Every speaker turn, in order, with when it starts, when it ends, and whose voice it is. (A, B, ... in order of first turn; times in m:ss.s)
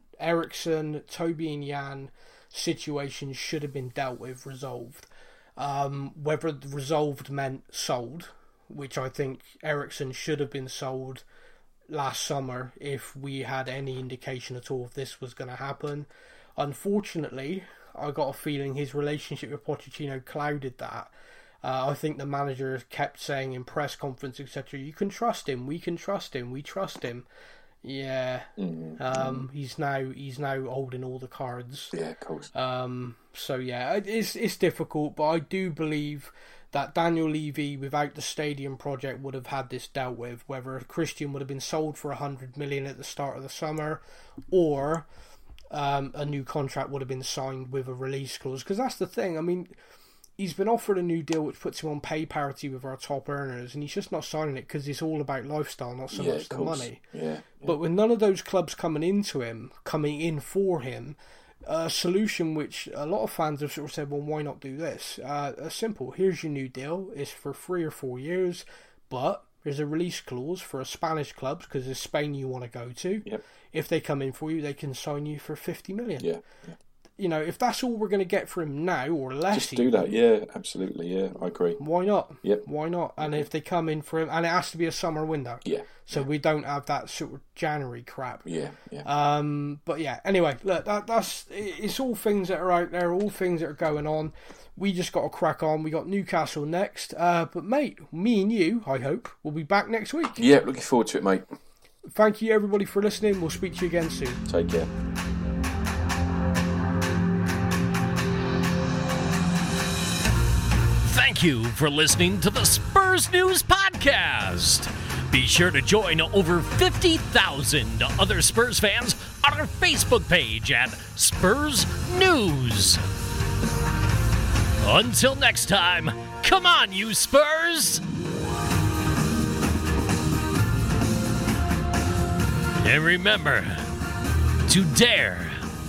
0:00.2-0:11.2 A
0:11.9-0:21.1 A
0:21.6-0:27.3 A
0:27.8-0:32.0 A
0:28.6-0:29.5 B
0:31.9-0:32.5 B
0:32.5-0:45.1 A
0:45.7-0:49.7 A
0:50.4-0:57.0 A
0:56.1-0:57.7 B
0:57.6-1:16.3 A
1:16.2-1:16.7 B
1:17.2-1:20.1 A
1:19.5-1:21.8 B
1:21.8-1:28.4 A
1:23.2-1:23.5 B
1:25.6-1:26.3 B
1:28.5-1:29.1 B
1:29.0-1:40.4 A
1:40.4-1:41.5 B
1:42.1-1:44.4 A
1:44.5-1:44.9 B
1:51.0-2:03.0 C
2:04.8-2:08.0 C
2:12.8-2:13.9 C
2:14.7-2:15.6 C